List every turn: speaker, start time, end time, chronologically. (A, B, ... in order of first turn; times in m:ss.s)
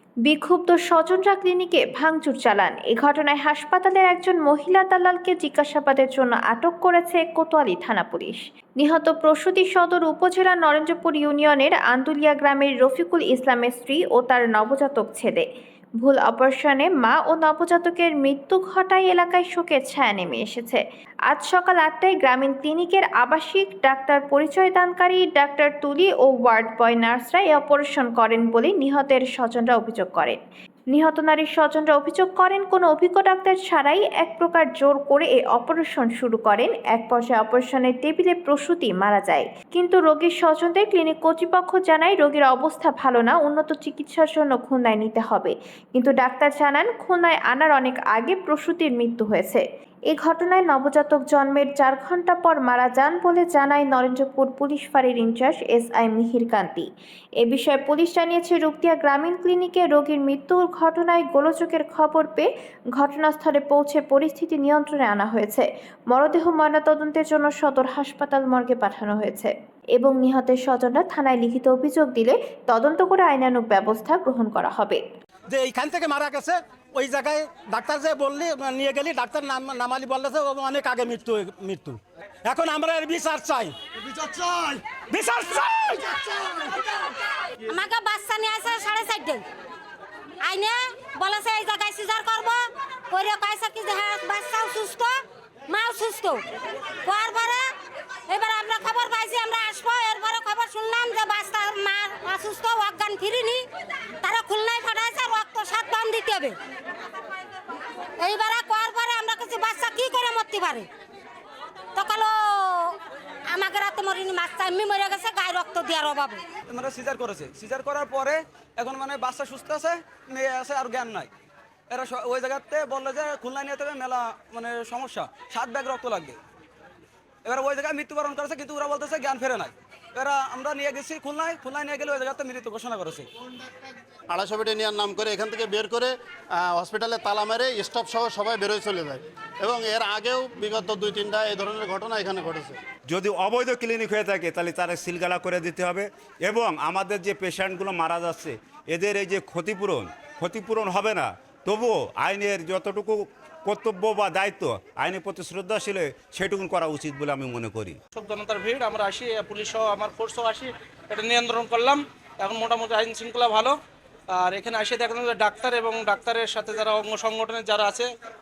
0:00.2-0:15.5 A
0:16.0-0:30.4 A
0:30.9-0:56.9 A
0:57.4-1:15.0 A
1:15.5-1:26.6 B
1:27.6-1:29.4 C
1:30.4-1:35.1 C
1:35.7-1:36.4 C
1:37.0-1:37.7 C
1:38.3-1:43.6 C
1:44.2-1:46.6 C
1:48.2-1:50.9 C
1:51.9-1:56.4 C
1:56.7-2:01.3 D
2:01.9-2:06.4 D
2:07.4-2:13.3 D
2:14.3-2:22.8 E
2:23.1-2:38.0 F
2:38.1-2:43.8 G
2:44.3-2:48.1 G